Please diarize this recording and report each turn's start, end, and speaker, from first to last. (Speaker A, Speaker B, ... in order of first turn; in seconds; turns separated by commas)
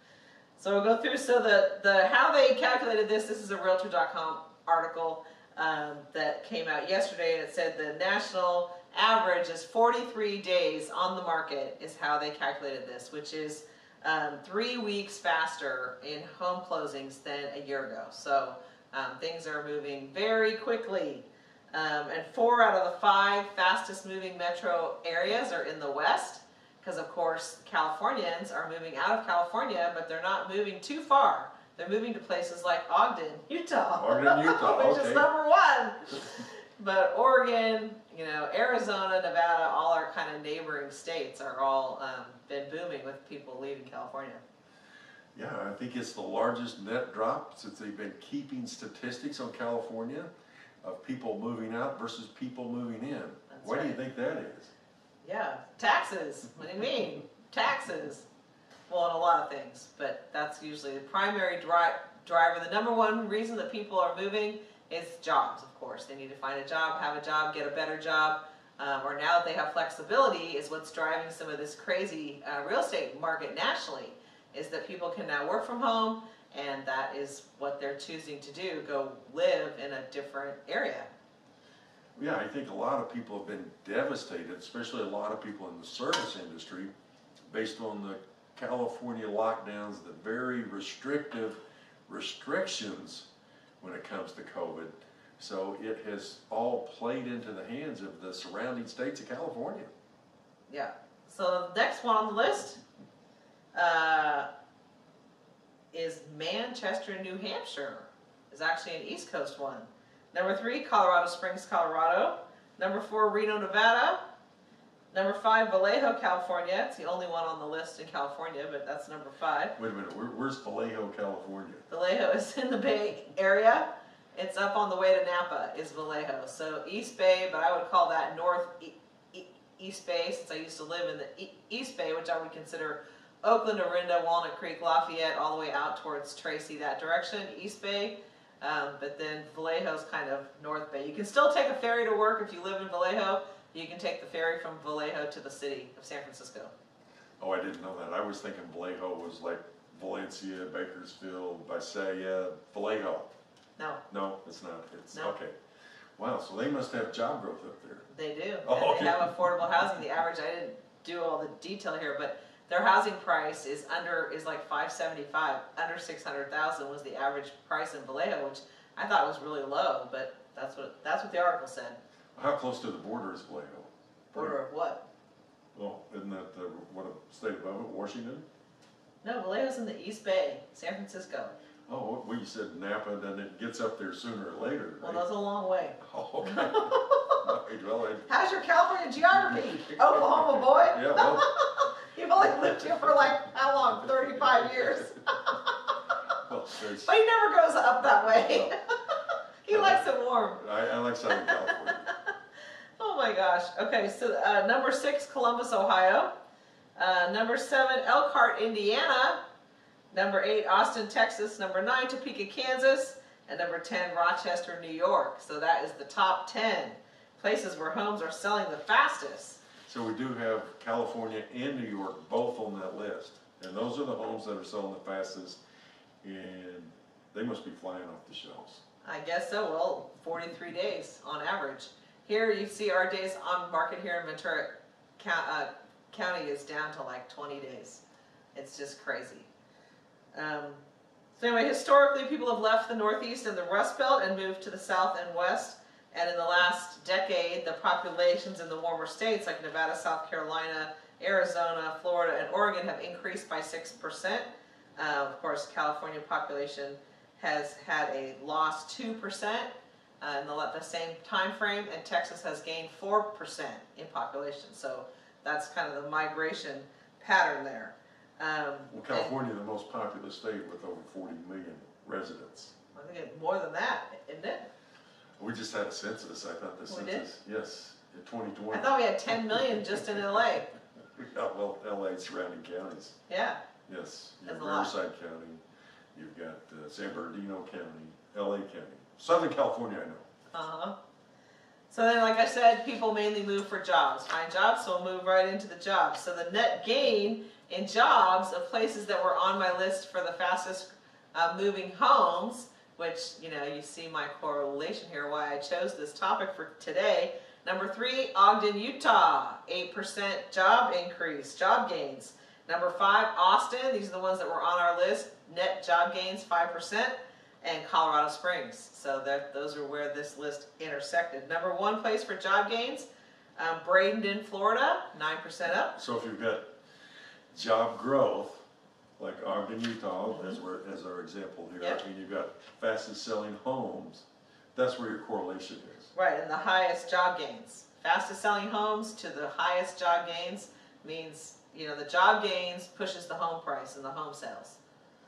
Speaker A: 0.6-44.4, Speaker B: 34.0-35.2, Speaker B: 45.3-50.3, Speaker B: 50.8-54.7, Speaker A: 53.5-54.0, Speaker A: 55.2-58.2, Speaker A: 58.9-81.1, Speaker B: 82.2-86.9, Speaker B: 87.5-93.2, Speaker B: 93.8-99.9, Speaker A: 100.7-102.8, Speaker A: 103.7-104.5, Speaker A: 105.9-114.2, Speaker A: 115.1-119.8, Speaker B: 119.8-121.8, Speaker A: 121.9-146.7, Speaker B: 147.4-153.3, Speaker B: 154.1-155.5, Speaker B: 156.2-158.1, Speaker A: 158.1-172.0, Speaker B: 158.6-159.5, Speaker B: 172.3-174.6, Speaker A: 174.3-175.0, Speaker B: 175.7-178.4, Speaker A: 179.2-181.5, Speaker B: 181.9-185.2, Speaker A: 185.0-187.4, Speaker B: 186.0-188.3, Speaker A: 188.3-195.7, Speaker B: 189.5-191.4, Speaker B: 196.4-197.1, Speaker A: 197.0-200.6, Speaker B: 199.7-202.1, Speaker A: 201.3-202.3, Speaker A: 203.0-206.3, Speaker A: 206.9-209.4, Speaker A: 210.1-219.6, Speaker B: 219.8-225.6, Speaker B: 226.2-228.8, Speaker A: 229.0-238.0, Speaker A: 238.5-239.5, Speaker A: 240.3-240.8, Speaker A: 241.4-259.7, Speaker A: 260.2-269.3, Speaker B: 268.9-272.7, Speaker A: 272.9-274.7, Speaker B: 275.4-279.0, Speaker A: 276.9-277.2, Speaker A: 278.7-280.7, Speaker B: 281.1-283.2, Speaker A: 283.3-283.6, Speaker B: 283.9-285.6, Speaker A: 284.4-284.9, Speaker B: 286.1-290.2, Speaker A: 290.5-290.9, Speaker A: 291.9-326.0, Speaker B: 325.9-326.6, Speaker B: 327.5-328.6, Speaker B: 329.2-336.1, Speaker A: 330.3-330.6, Speaker A: 336.1-344.8